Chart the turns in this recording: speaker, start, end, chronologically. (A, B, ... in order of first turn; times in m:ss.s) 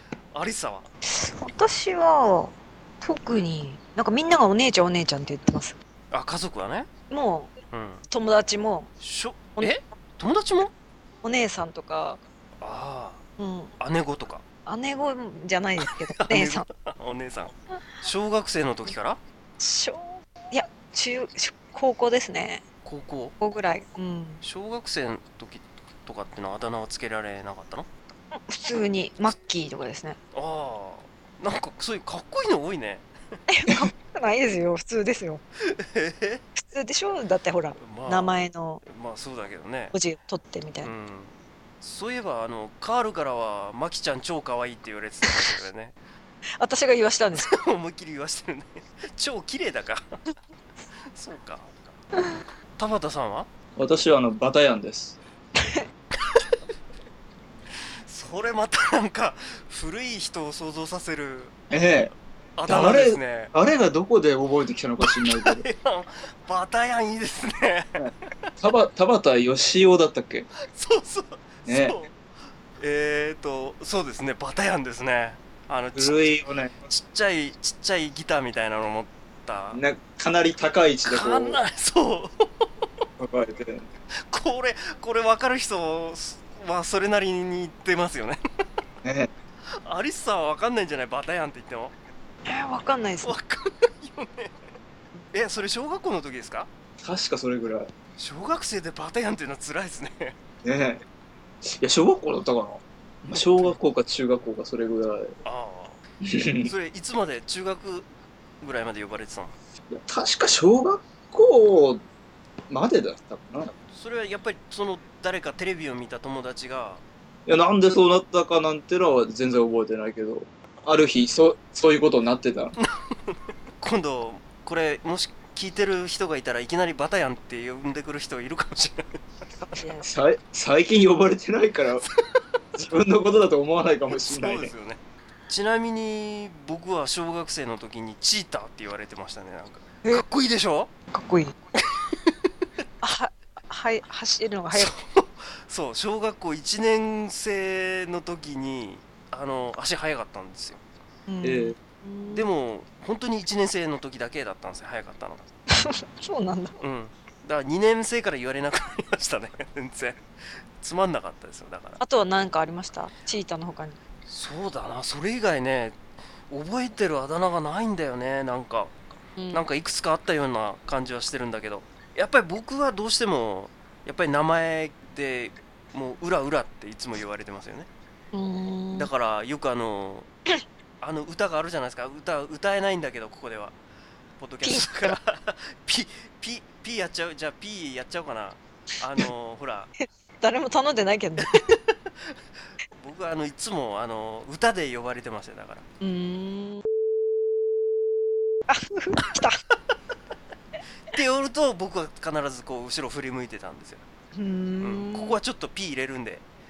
0:00.3-0:00.9 A
0:01.0-0:05.8 B
0:06.1-0:06.9 A
0:07.1-0:07.5 B
0:07.7-0:08.0 A
0:08.1-0:08.9 B
0:09.0-0:10.7 A
0:11.2-0:12.2 B
0:12.6-0:13.2 A
0:13.4-0:13.7 B
0:13.8-0:14.4 A
0:14.6-0:16.6 B
0:15.8-0:19.2 A
0:19.6-0:22.6 B
0:22.8-0:23.3 A
0:23.4-0:24.4 B
0:24.4-0:27.9 A
0:28.5-0:30.2 B
0:30.3-0:33.1 A
0:33.5-0:35.4 B
0:35.6-0:36.4 A
0:36.6-0:38.8 B
0:37.8-0:39.9 A
0:39.9-0:40.9 B
0:40.8-0:45.9 A
0:46.6-0:47.5 B
0:47.3-0:50.2 A
0:51.1-0:52.0 A
0:52.8-0:53.5 A
0:53.8-0:55.2 C
0:55.6-0:55.8 B
0:56.1-0:56.6 A
0:57.8-1:02.0 A
1:01.7-1:02.1 C
1:02.6-1:03.5 A
1:02.7-1:05.6 C
1:05.0-1:08.0 A
1:08.0-1:10.5 C
1:10.6-1:12.2 A
1:11.6-1:12.0 C
1:12.8-1:19.8 A
1:16.0-1:16.8 C
1:19.7-1:21.6 C
1:21.0-1:22.8 A
1:23.2-1:23.9 C
1:24.2-1:28.4 A
1:29.0-1:29.3 C
1:29.7-1:32.0 A
1:32.4-1:33.4 B
1:33.2-1:34.6 A
1:35.3-1:36.7 A
1:37.0-1:37.9 C
1:38.2-1:40.4 A
1:40.6-1:41.0 C
1:41.6-1:45.3 C
1:43.3-1:43.8 A
1:45.4-1:46.0 A
1:46.2-1:46.7 C
1:46.6-1:48.1 A
1:48.6-1:49.5 A
1:49.9-1:52.0 C
1:52.7-1:53.7 C
1:53.9-1:57.0 A
1:57.5-2:02.7 C
2:02.8-2:09.2 A
2:09.6-2:10.1 B
2:10.0-2:12.0 C
2:12.7-2:14.7 C
2:14.1-2:20.9 A
2:21.1-2:21.5 B
2:21.8-2:22.4 A
2:23.0-2:24.9 B
2:24.7-2:30.8 A
2:31.3-2:32.5 B
2:31.4-2:31.8 C
2:32.3-2:35.5 A
2:35.7-2:36.8 B
2:36.8-2:40.2 A
2:40.8-2:42.0 A
2:42.0-2:44.0 B
2:44.3-2:49.0 A
2:49.4-2:49.6 B
2:49.5-2:57.9 A
2:58.3-2:59.1 B
2:58.9-3:00.3 A
3:01.0-3:03.8 A
3:04.4-3:09.9 A
3:04.6-3:05.2 B
3:10.4-3:11.6 B
3:11.4-3:12.4 A
3:13.0-3:15.8 A
3:16.0-3:16.8 B
3:18.7-3:19.6 B
3:21.1-3:24.0 A
3:24.3-3:25.4 B
3:24.8-3:26.4 A